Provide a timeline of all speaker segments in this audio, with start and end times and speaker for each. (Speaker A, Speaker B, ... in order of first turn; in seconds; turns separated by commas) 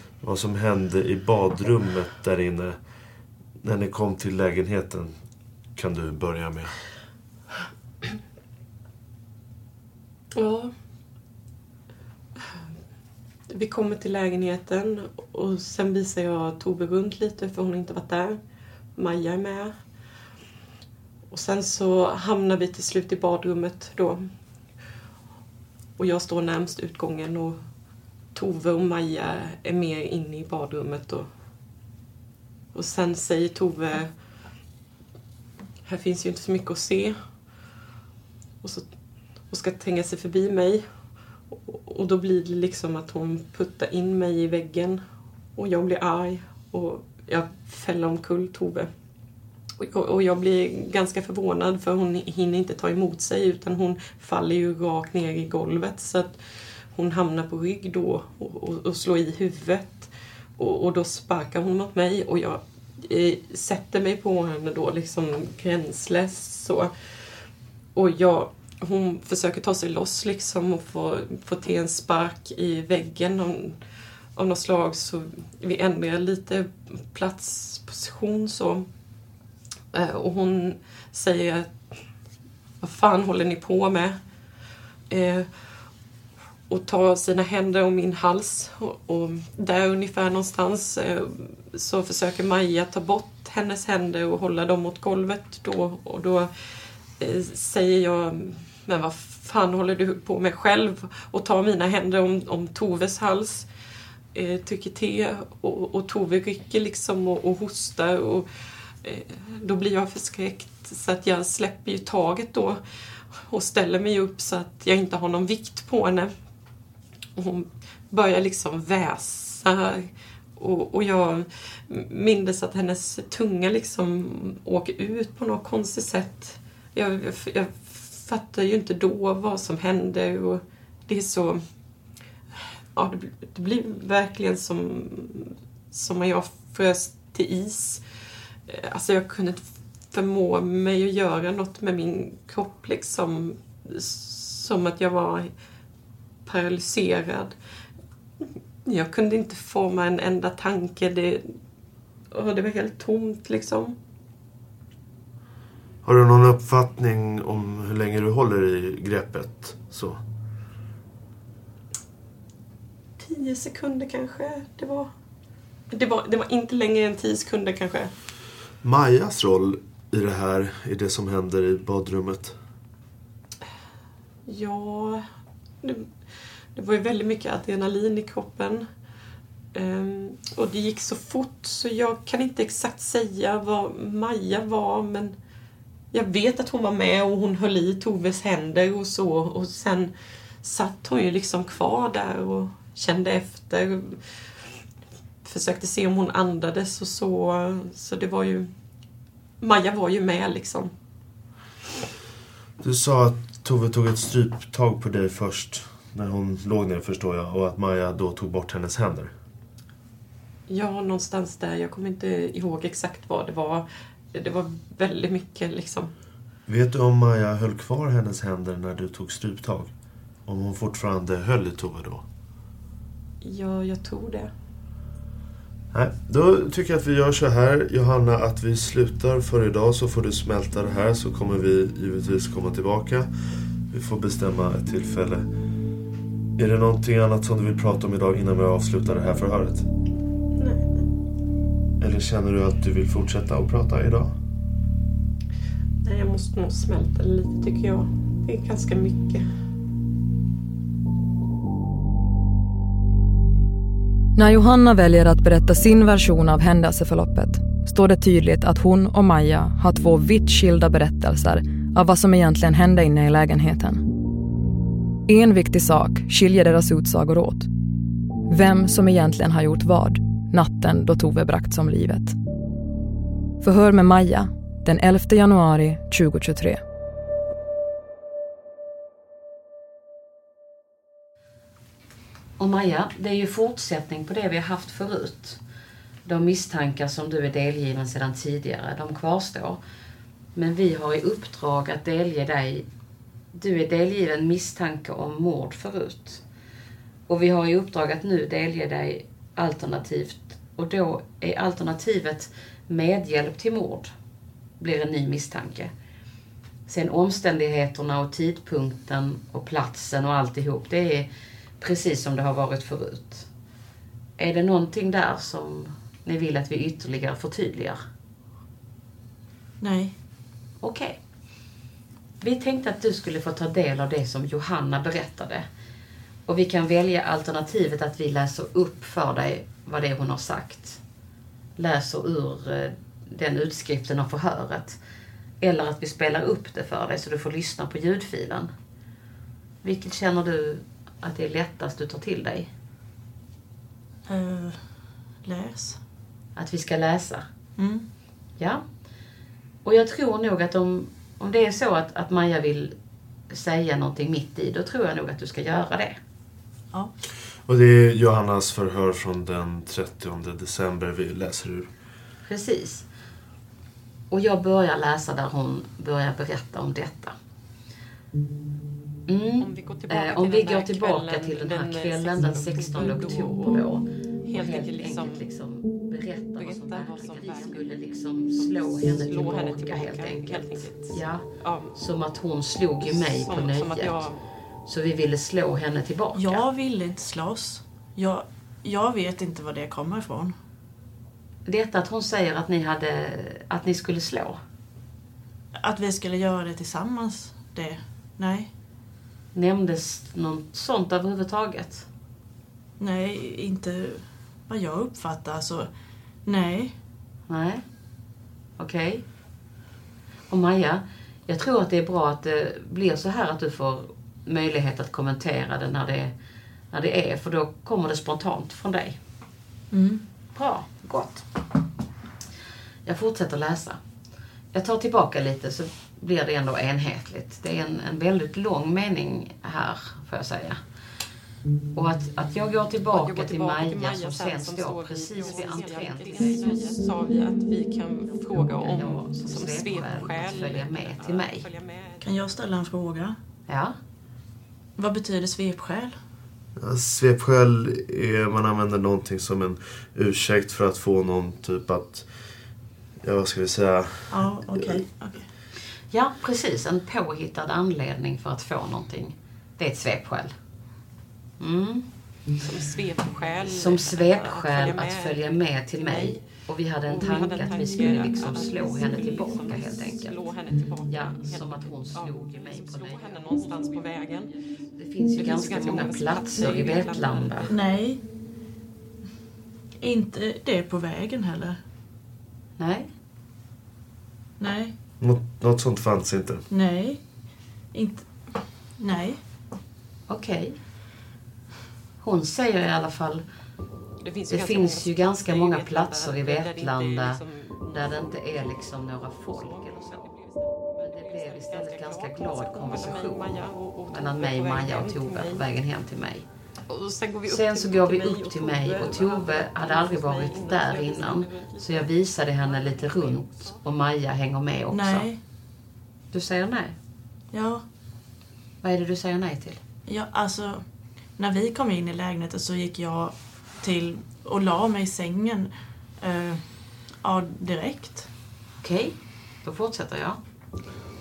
Speaker A: 0.2-2.8, Speaker A: 3.6-5.2, Speaker A: 5.7-6.7, Speaker B: 10.3-10.7, Speaker B: 13.5-18.4, Speaker B: 18.9-19.7, Speaker B: 21.3-24.3, Speaker B: 26.0-27.7, Speaker B: 28.3-31.3, Speaker B: 32.7-34.2, Speaker B: 35.9-37.3, Speaker B: 38.6-38.9, Speaker B: 39.5-45.0, Speaker B: 45.5-48.9, Speaker B: 49.8-56.4, Speaker B: 56.9-66.9, Speaker B: 67.9-73.8, Speaker B: 74.3-78.9, Speaker B: 79.9-82.0, Speaker B: 82.8-84.2, Speaker B: 85.1-85.5, Speaker B: 86.7-96.5, Speaker B: 97.2-103.7, Speaker B: 104.3-108.5, Speaker B: 109.0-112.8, Speaker B: 113.3-116.3, Speaker B: 117.3-131.6, Speaker B: 132.9-138.0, Speaker B: 138.7-145.5, Speaker B: 146.4-147.6, Speaker B: 148.8-151.6, Speaker B: 152.3-153.9, Speaker A: 156.0-160.2, Speaker B: 163.2-165.1, Speaker B: 165.9-168.1, Speaker A: 168.8-172.6, Speaker B: 174.5-175.2, Speaker B: 175.8-176.1, Speaker B: 176.7-178.9, Speaker B: 179.7-185.3, Speaker B: 186.1-194.2, Speaker B: 195.4-198.7, Speaker B: 199.6-200.9, Speaker A: 202.8-209.3, Speaker B: 210.7-216.1, Speaker A: 216.7-219.9, Speaker A: 220.4-222.2, Speaker B: 223.4-224.5, Speaker A: 225.9-233.3, Speaker A: 233.9-235.5, Speaker A: 236.6-239.8, Speaker B: 240.6-241.0, Speaker A: 242.0-244.3, Speaker B: 246.0-249.5, Speaker C: 254.3-264.0, Speaker C: 265.3-267.7, Speaker C: 268.5-272.3, Speaker C: 273.6-276.8, Speaker D: 282.6-285.6, Speaker D: 286.2-289.8, Speaker D: 290.5-292.9, Speaker D: 293.5-296.4, Speaker D: 297.3-304.1, Speaker D: 304.8-305.9, Speaker D: 306.9-313.5, Speaker D: 314.4-318.0, Speaker E: 319.8-320.1, Speaker D: 320.8-321.2, Speaker D: 322.4-325.7, Speaker D: 326.4-331.0, Speaker D: 331.8-335.0, Speaker D: 335.6-338.7, Speaker D: 339.8-342.7, Speaker E: 344.3-344.9, Speaker E: 345.4-346.0, Speaker D: 346.6-347.4, Speaker E: 347.8-348.0, Speaker D: 348.6-348.8, Speaker D: 349.8-352.9, Speaker D: 353.5-356.2, Speaker A: 357.7-361.9, Speaker D: 362.4-363.1, Speaker D: 364.3-367.3, Speaker D: 369.3-384.2, Speaker B: 369.6-373.9, Speaker B: 374.5-375.4, Speaker B: 376.6-381.9, Speaker B: 383.0-384.4, Speaker D: 384.9-386.6, Speaker E: 386.3-390.5, Speaker D: 391.6-394.6, Speaker E: 395.7-398.7, Speaker D: 399.5-402.1, Speaker E: 403.0-405.9, Speaker E: 406.4-406.9, Speaker D: 407.5-407.8, Speaker D: 408.8-409.2, Speaker D: 410.5-416.3, Speaker D: 416.9-419.2, Speaker E: 419.9-420.2, Speaker D: 420.5-421.4, Speaker D: 423.0-424.0, Speaker D: 424.7-430.8, Speaker D: 431.9-437.1, Speaker B: 433.1-442.2, Speaker D: 438.6-441.7, Speaker E: 442.2-443.4, Speaker D: 443.7-443.9, Speaker E: 445.0-446.2, Speaker A: 446.8-452.3, Speaker A: 453.2-455.0, Speaker E: 454.3-455.5, Speaker D: 456.1-460.5, Speaker D: 461.6-462.1, Speaker B: 462.6-466.4, Speaker D: 463.6-470.5, Speaker B: 467.1-474.5, Speaker D: 471.1-474.3, Speaker D: 474.9-477.7, Speaker B: 475.4-477.7, Speaker E: 477.7-478.2, Speaker E: 480.0-481.8, Speaker D: 482.8-483.1, Speaker E: 484.6-484.9, Speaker A: 485.2-486.6, Speaker E: 486.7-487.2, Speaker E: 487.9-489.4, Speaker D: 490.3-490.8, Speaker D: 492.2-493.4, Speaker B: 494.2-505.6, Speaker D: 494.5-500.3, Speaker D: 501.0-506.4, Speaker B: 506.9-513.8, Speaker D: 507.5-515.3, Speaker E: 514.9-515.4, Speaker D: 516.3-516.9, Speaker E: 517.5-517.8, Speaker D: 518.8-519.8, Speaker E: 520.1-520.8, Speaker E: 521.4-526.7, Speaker E: 527.2-528.3, Speaker D: 528.8-530.4